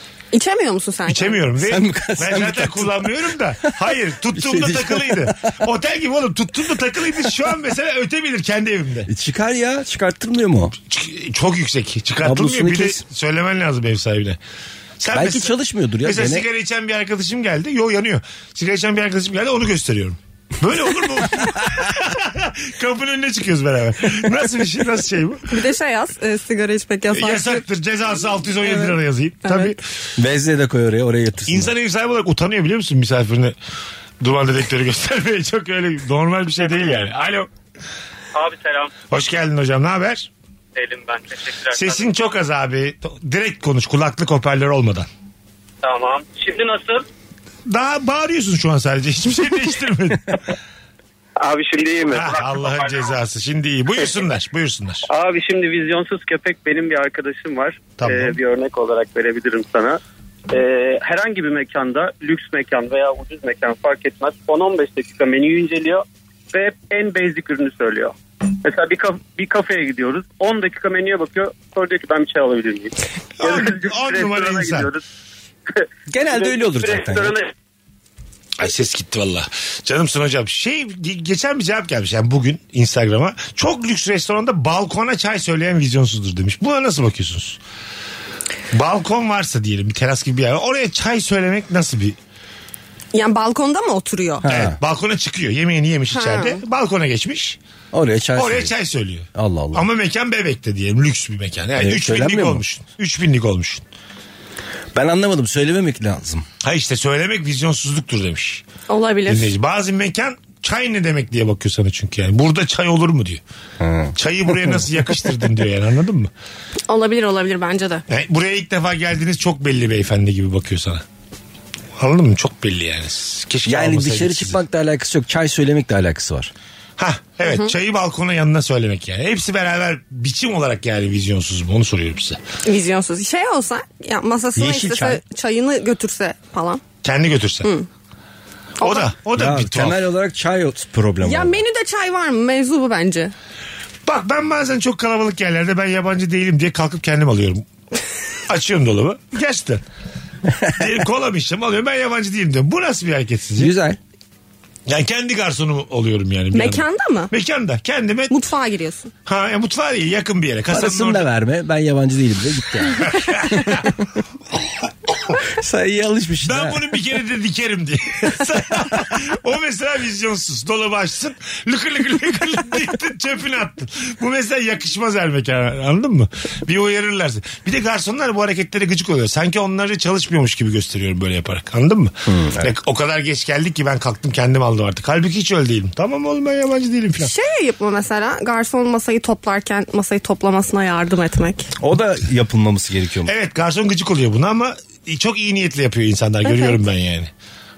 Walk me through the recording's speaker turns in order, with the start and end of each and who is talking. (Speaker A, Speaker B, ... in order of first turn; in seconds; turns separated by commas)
Speaker A: 0.3-1.4, Speaker B: 1.1-9.1, Speaker C: 1.6-5.5, Speaker C: 9.1-10.7, Speaker B: 10.9-14.4, Speaker C: 12.2-13.0, Speaker B: 15.0-15.5, Speaker C: 15.1-16.4, Speaker B: 16.0-25.5, Speaker A: 25.5-27.6, Speaker B: 27.1-29.8, Speaker A: 28.6-29.8, Speaker C: 30.2-31.7, Speaker B: 31.5-33.5, Speaker B: 34.2-37.5, Speaker D: 38.3-38.9, Speaker B: 39.1-40.3, Speaker D: 40.7-42.1, Speaker B: 41.7-45.1, Speaker D: 45.8-47.0, Speaker B: 47.7-50.4, Speaker D: 51.4-53.1, Speaker B: 52.1-55.0, Speaker D: 55.1-75.0, Speaker B: 58.0-58.4, Speaker B: 73.4-74.9, Speaker C: 76.1-77.3, Speaker D: 76.2-77.5, Speaker B: 78.6-87.6, Speaker B: 88.7-92.2, Speaker A: 93.1-94.5, Speaker C: 94.4-94.8, Speaker B: 94.5-97.6, Speaker A: 96.1-96.6, Speaker C: 97.9-98.7, Speaker B: 98.3-103.8, Speaker C: 99.3-99.8, Speaker C: 101.8-102.6, Speaker C: 104.9-106.5, Speaker B: 106.6-108.6, Speaker A: 108.9-109.5, Speaker B: 109.3-113.4, Speaker C: 113.8-114.8, Speaker B: 114.2-116.3, Speaker A: 116.9-118.0, Speaker B: 118.1-121.0, Speaker B: 122.0-124.6, Speaker C: 123.7-126.5, Speaker B: 127.0-132.4, Speaker A: 132.6-136.8, Speaker C: 134.6-135.2, Speaker B: 137.0-137.7, Speaker A: 138.8-139.1, Speaker B: 138.8-140.0, Speaker C: 139.3-141.6, Speaker A: 141.2-143.3, Speaker B: 144.1-147.6, Speaker B: 148.5-149.8, Speaker B: 150.7-153.7, Speaker C: 153.6-154.0, Speaker B: 154.9-158.3, Speaker A: 156.5-157.3, Speaker A: 158.3-159.1, Speaker B: 159.2-161.2, Speaker C: 160.7-163.4, Speaker B: 163.0-163.9, Speaker C: 165.5-166.9, Speaker B: 166.4-187.3, Speaker C: 182.3-182.7, Speaker A: 187.2-191.7, Speaker C: 191.8-193.3, Speaker B: 193.2-197.3, Speaker A: 196.4-196.8